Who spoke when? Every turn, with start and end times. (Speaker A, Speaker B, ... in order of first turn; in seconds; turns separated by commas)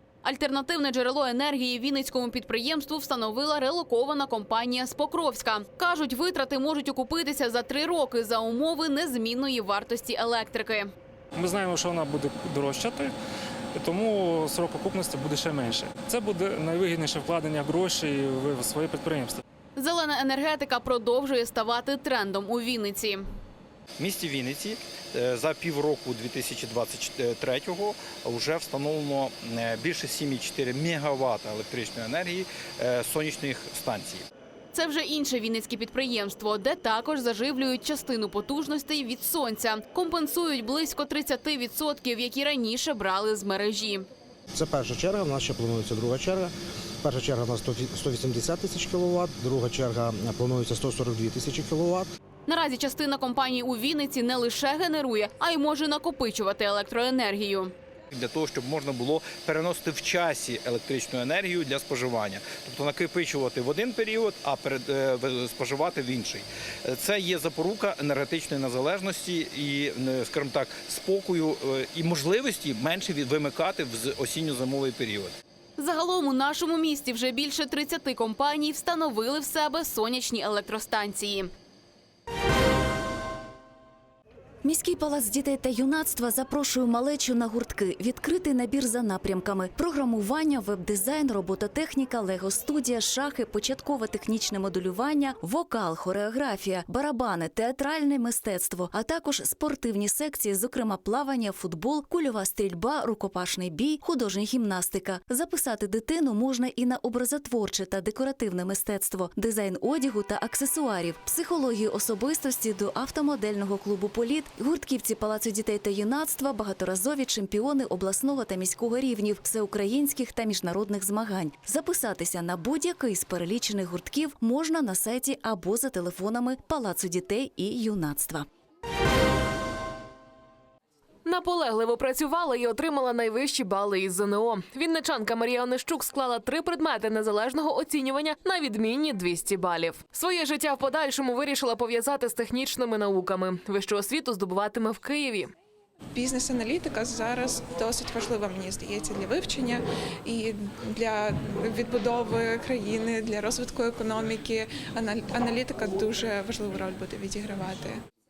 Speaker A: 0.2-10.9, Speaker B: 11.3-13.1, Speaker B: 13.7-19.4, Speaker A: 19.8-23.3, Speaker C: 24.0-34.2, Speaker A: 34.7-44.1, Speaker D: 44.5-46.5, Speaker D: 47.0-52.1, Speaker A: 52.5-57.7, Speaker C: 58.1-75.3, Speaker A: 75.8-81.5, Speaker E: 84.6-128.5, Speaker F: 131.2-145.5, Speaker G: 146.1-158.0